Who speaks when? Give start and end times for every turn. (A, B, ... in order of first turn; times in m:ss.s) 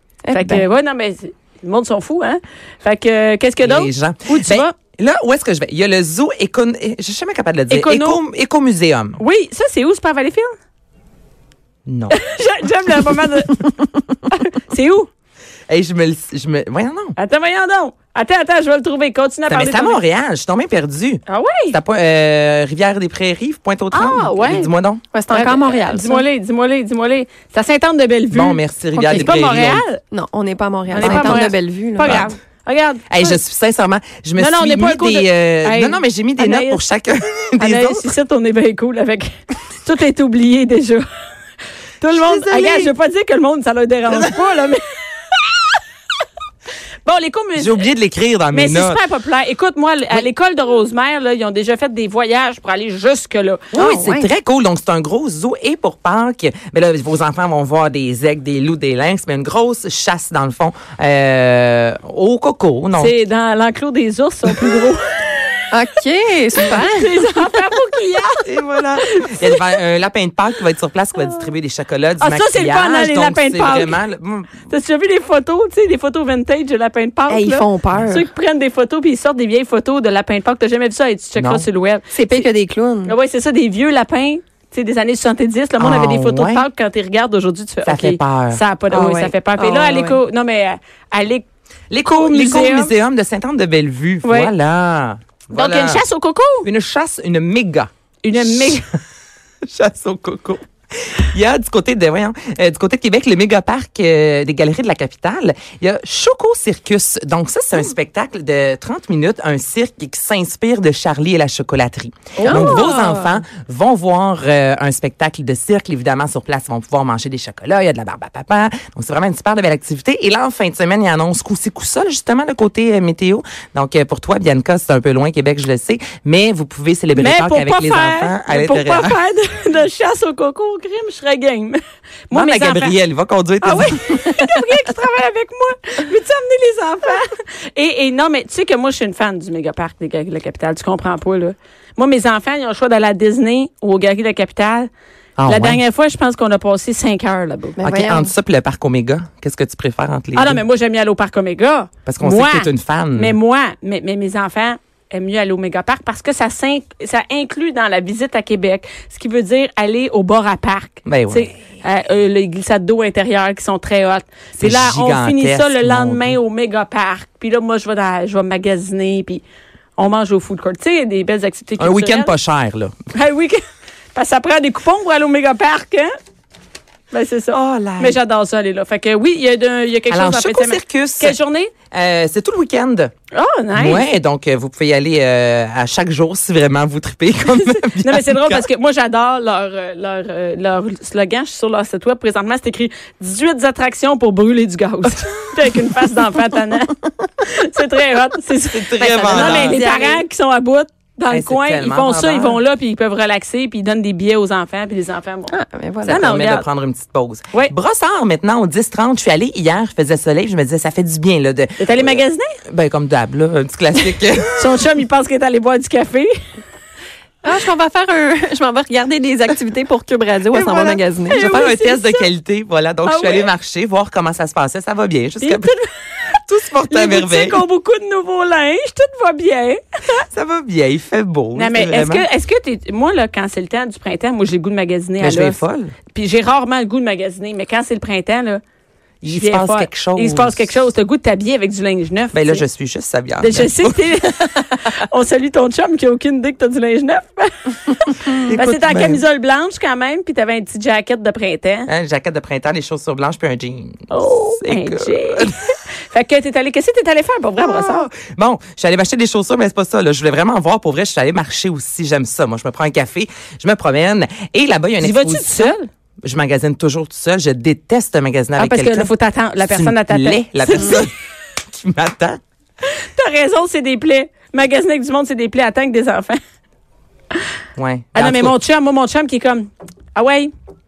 0:00.2-0:00.6 A
0:00.3-0:04.7 B
0:03.6-0:09.2 C
0:07.7-0:08.2 B
0:09.2-0:10.5 B
0:11.8-0:12.2 C
0:12.1-0:15.1 B
0:15.7-0:17.2 C
0:17.2-0:20.0 B
0:19.5-0:25.0 C
0:21.3-0:21.8 B
0:23.9-0:24.7 B
0:25.1-0:26.2 A
0:25.3-0:28.6 B
0:28.3-0:29.8 C
0:28.9-0:29.4 A
0:29.1-0:30.0 B
0:30.0-0:32.3 A
0:30.9-0:33.4 B
0:31.0-0:31.5 C
0:32.0-0:32.3 C
0:33.1-0:38.1 C
0:34.4-0:36.8 B
0:37.6-0:41.1 B
0:42.0-0:45.8 B
0:42.1-0:42.9 C
0:44.0-0:44.3 C
0:47.0-0:47.8 B
0:47.6-0:49.0 C
0:48.5-0:53.7 B
0:53.7-0:54.3 A
0:53.7-1:03.1 C
1:03.0-1:05.3 B
1:05.7-1:07.2 A
1:06.6-1:09.6 B
1:08.4-1:14.7 C
1:12.2-1:14.0 B
1:14.7-1:22.4 B
1:17.3-1:18.3 A
1:21.4-1:21.7 C
1:22.1-1:23.2 A
1:23.0-1:31.4 B
1:25.8-1:26.6 C
1:27.8-1:28.6 C
1:28.9-1:30.2 A
1:31.9-1:36.0 C
1:32.0-1:32.9 B
1:34.2-1:34.5 B
1:35.5-1:36.7 B
1:36.6-1:38.8 C
1:38.2-1:38.9 B
1:39.7-2:09.2 C
1:52.4-1:52.9 B
1:52.4-1:53.4 A
2:07.1-2:13.0 B
2:12.3-2:14.5 C
2:13.6-2:24.9 B
2:25.4-2:25.8 C
2:25.4-2:27.8 B
2:27.8-2:28.3 A
2:27.8-2:30.6 C
2:30.3-2:49.4 B
2:32.0-2:33.4 C
2:41.0-2:41.5 C
2:44.6-2:46.4 C
2:50.0-2:52.3 B
2:51.8-2:53.0 C
2:53.1-2:53.6 B
2:54.1-2:56.1 B
2:57.1-3:01.7 B
2:57.5-2:58.2 C
3:00.1-3:01.4 C
3:01.9-3:03.1 C
3:03.3-3:04.0 B
3:03.7-3:08.6 C
3:07.8-3:25.5 B
3:18.7-3:19.8 C
3:19.0-3:20.2 A
3:21.3-3:22.6 C
3:25.5-3:26.3 A
3:26.0-3:26.6 B
3:26.1-3:34.8 C
3:31.8-3:32.6 B
3:34.6-3:36.3 B
3:37.4-3:41.6 A
3:40.5-3:45.7 C
3:41.2-3:42.3 B
3:43.0-3:43.5 B
3:45.4-3:45.9 B
3:46.3-3:47.6 C
3:46.9-3:50.2 B
3:50.3-3:52.2 C
3:51.6-3:55.6 B
3:55.2-3:55.9 C
3:56.1-3:58.6 B
3:59.2-4:00.7 C
3:59.3-4:02.6 B
4:02.3-4:04.2 C
4:03.4-4:11.9 B
4:08.4-4:09.2 C
4:11.9-4:15.5 C
4:14.1-4:18.1 B
4:17.6-4:31.1 C
4:25.0-4:25.9 B
4:28.6-4:31.1 B
4:31.6-4:32.4 C
4:32.8-4:36.4 B
4:37.8-4:38.5 C
4:38.1-4:40.5 B